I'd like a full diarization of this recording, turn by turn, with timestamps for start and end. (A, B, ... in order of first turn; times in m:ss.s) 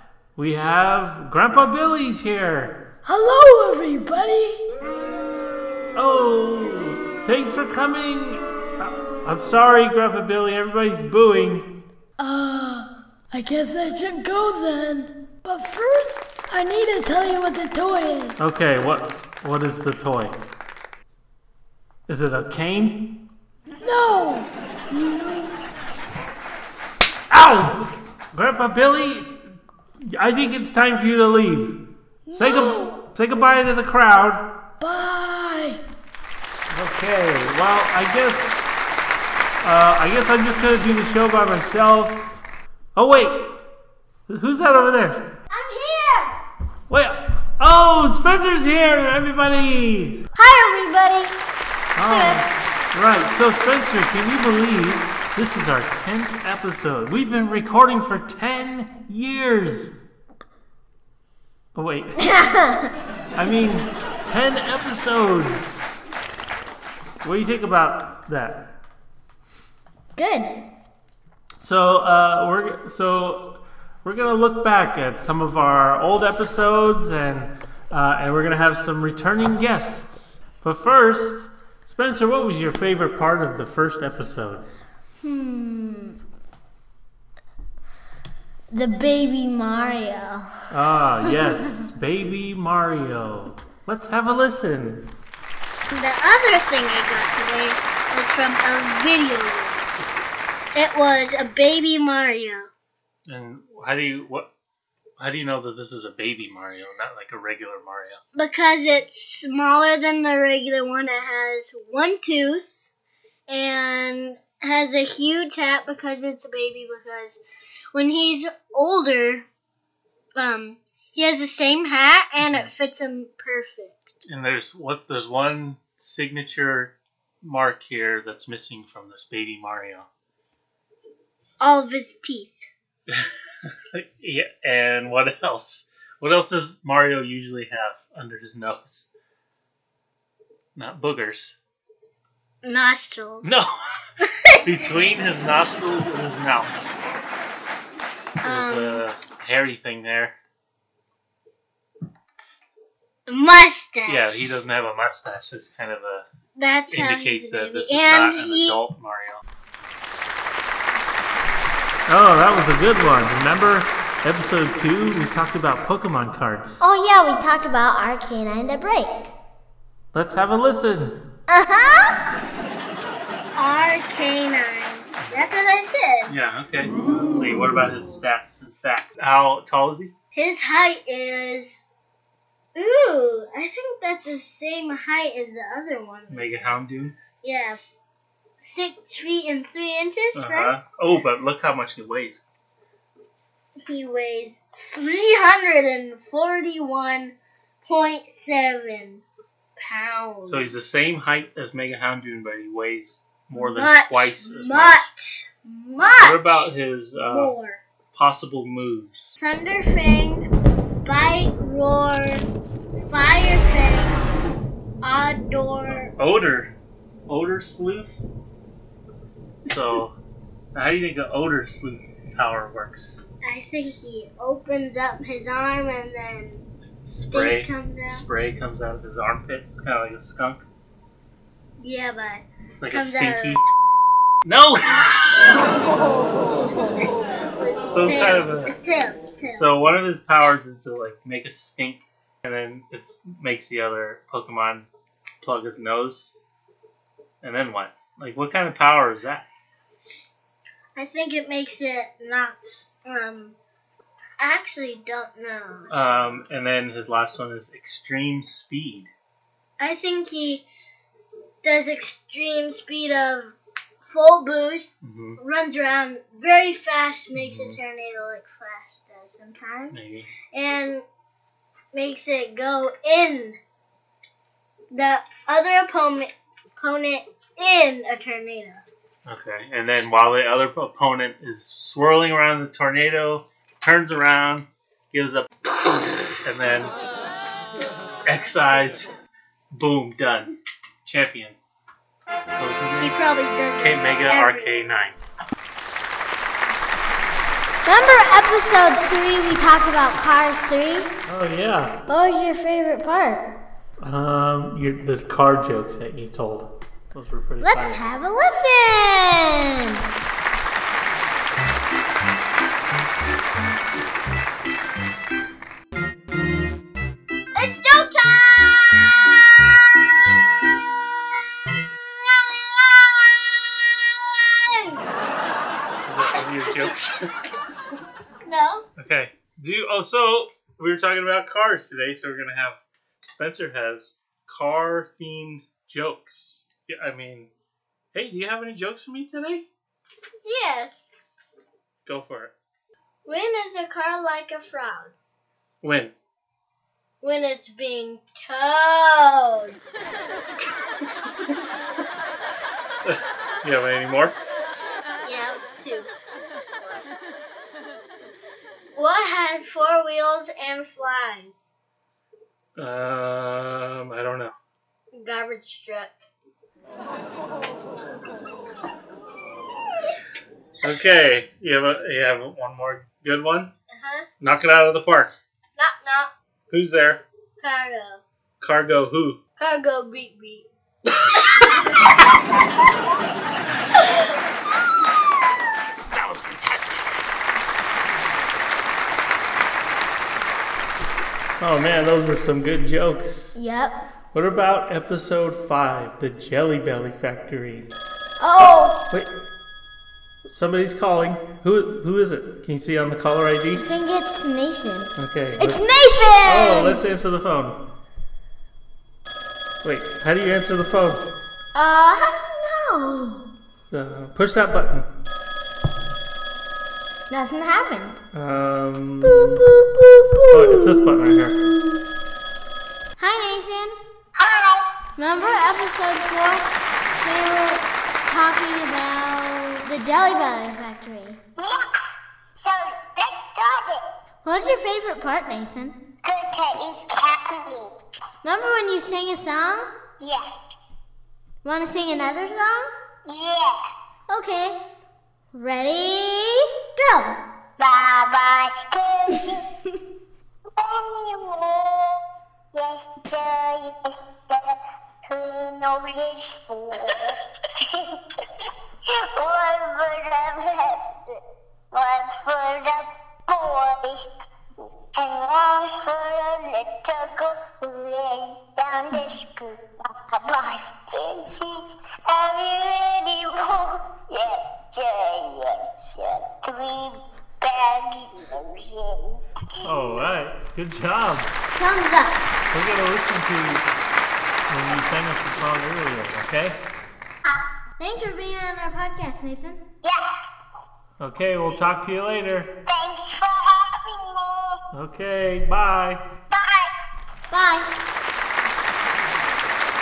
0:00.4-0:02.8 A
0:03.0-0:04.6 B
0:05.9-0:11.7 A
0:12.2-0:18.4 B
0:18.4-0:20.4 A
0:22.1-0:23.2 A
0:23.8-0:25.6 B
0:27.3-0:29.4 A
0:30.0-0:34.5 A
0:32.2-0:33.0 B
0:34.8-0:35.8 B
0:36.7-0:38.7 A
0:39.6-0:42.4 A
0:42.9-0:43.6 A
0:44.3-0:45.2 A
0:45.5-0:46.4 C
0:46.9-0:50.2 A
0:50.3-0:51.3 C
0:51.9-0:59.9 A
0:52.1-0:52.5 C
1:01.7-1:02.3 A
1:02.2-1:02.9 C
1:03.3-1:05.9 A
1:07.2-1:08.7 A
1:10.2-1:10.6 C
1:11.6-1:24.6 A
1:25.2-1:26.2 C
1:28.7-1:30.7 C
1:30.7-1:35.1 A
1:31.2-1:31.7 C
1:35.9-1:39.9 D
1:40.7-1:42.7 D
1:43.3-1:44.5 A
1:45.2-1:48.2 A
1:48.3-1:52.9 D
1:53.5-1:57.4 D
1:57.9-1:59.4 D
2:00.4-2:04.1 D
2:04.3-2:10.1 A
2:11.6-2:12.6 D
2:13.1-2:19.1 A
2:20.8-2:21.5 A
2:22.6-2:23.5 D
2:23.4-2:23.7 A
2:24.2-2:24.7 D
2:24.6-2:26.7 A
2:28.4-2:29.0 D
2:28.4-2:30.4 A
2:33.3-2:34.5 D
2:34.1-2:36.3 A
2:36.6-2:38.8 D
2:36.9-2:39.4 A
2:42.1-2:46.8 A
2:46.8-2:49.3 C
2:50.1-2:51.2 A
2:51.5-2:52.2 C
2:53.6-2:56.3 D
2:56.3-3:00.1 A
3:00.3-3:01.8 D
3:02.7-3:06.8 D
3:06.3-3:07.2 A
3:07.3-3:07.8 D
3:08.6-3:10.7 D
3:10.3-3:12.4 A
3:13.8-3:19.2 D
3:19.8-3:20.7 D
3:20.5-3:25.0 A
3:23.6-3:26.7 D
3:26.2-3:27.5 A
3:27.2-3:27.8 D
3:28.1-3:29.3 A
3:29.4-3:30.5 D
3:31.0-3:32.4 D
3:33.0-3:34.2 D
3:35.0-3:36.1 D
3:35.9-3:36.7 A
3:37.3-3:38.2 A
3:39.7-3:40.1 A
3:40.7-3:43.2 A
3:43.4-3:46.6 D
3:47.0-3:50.6 A
3:47.3-3:48.2 D
3:51.8-3:53.7 D
3:52.8-3:53.6 A
3:54.4-3:55.8 A
3:57.8-3:59.7 D
3:57.9-3:58.7 A
3:59.5-4:04.9 A
4:05.4-4:06.3 A
4:07.4-4:09.5 A
4:10.9-4:13.6 D
4:14.4-4:16.0 D
4:15.9-4:19.1 A
4:19.8-4:20.6 D
4:21.6-4:30.0 D
4:25.0-4:25.4 A
4:27.3-4:27.8 A
4:29.9-4:30.3 A
4:30.5-4:31.0 D
4:31.9-4:33.6 D
4:34.9-4:38.8 D
4:39.2-4:46.9 A
4:48.2-4:49.1 A
4:49.7-4:50.5 A
4:51.0-4:51.6 A
4:52.6-4:53.2 A
4:53.0-4:54.7 D
4:53.8-4:55.2 A
4:57.8-5:01.1 C
5:01.3-5:02.0 A
5:02.1-5:03.5 C
5:04.0-5:08.0 A
5:07.6-5:10.0 C
5:17.5-5:19.4 D
5:20.3-5:20.8 D
5:22.1-5:25.0 D
5:26.0-5:27.3 A
5:28.4-5:28.8 D
5:29.0-5:37.5 A
5:38.1-5:39.6 A
5:40.4-5:41.0 D
5:42.0-5:42.5 A
5:43.2-5:45.1 D
5:45.8-5:46.1 A
5:47.2-5:49.8 D
5:53.0-5:54.4 A
5:55.2-5:56.1 D
5:59.0-6:01.5 D
6:02.8-6:04.5 A
6:05.1-6:06.2 D
6:10.8-6:13.7 A
6:13.9-6:14.3 D
6:14.4-6:15.3 A
6:15.8-6:16.3 D
6:16.7-6:17.2 A
6:17.6-6:18.2 D
6:18.6-6:19.4 A
6:19.6-6:20.7 D
6:26.1-6:27.0 A
6:31.6-6:33.5 A
6:33.5-6:34.0 C
6:34.3-6:37.9 A
6:38.4-6:39.0 C
6:40.5-6:43.8 A
6:43.8-6:47.0 C
6:45.2-6:45.8 A
6:46.4-6:47.8 A
6:49.8-6:51.3 A
6:51.7-6:53.5 C
6:53.9-6:55.1 A
6:57.3-6:58.2 C
6:58.3-6:59.6 A
6:59.2-7:01.1 C
7:00.5-7:01.6 A
7:03.2-7:04.0 C
7:04.4-7:04.8 E
7:05.2-7:11.4 C
7:11.6-7:12.0 E
7:12.6-7:14.0 E
7:14.4-7:16.0 C
7:16.2-7:17.9 E
7:18.4-7:19.9 C
7:20.2-7:20.5 E
7:21.6-7:22.9 C
7:23.2-7:23.8 E
7:24.3-7:24.8 C
7:25.5-7:27.4 C
7:27.8-7:29.6 E
7:30.8-7:32.2 E
7:32.7-7:38.2 E
7:39.0-7:41.4 E
7:41.9-7:44.2 E
7:45.1-8:00.0 E
7:59.8-8:01.6 A
8:01.8-8:02.4 C
8:02.7-8:03.9 A
8:04.7-8:06.8 A
8:08.0-8:09.8 C
8:11.2-8:12.7 A
8:12.9-8:14.8 E
8:14.9-8:16.2 A
8:16.5-8:16.9 E
8:17.5-8:17.9 C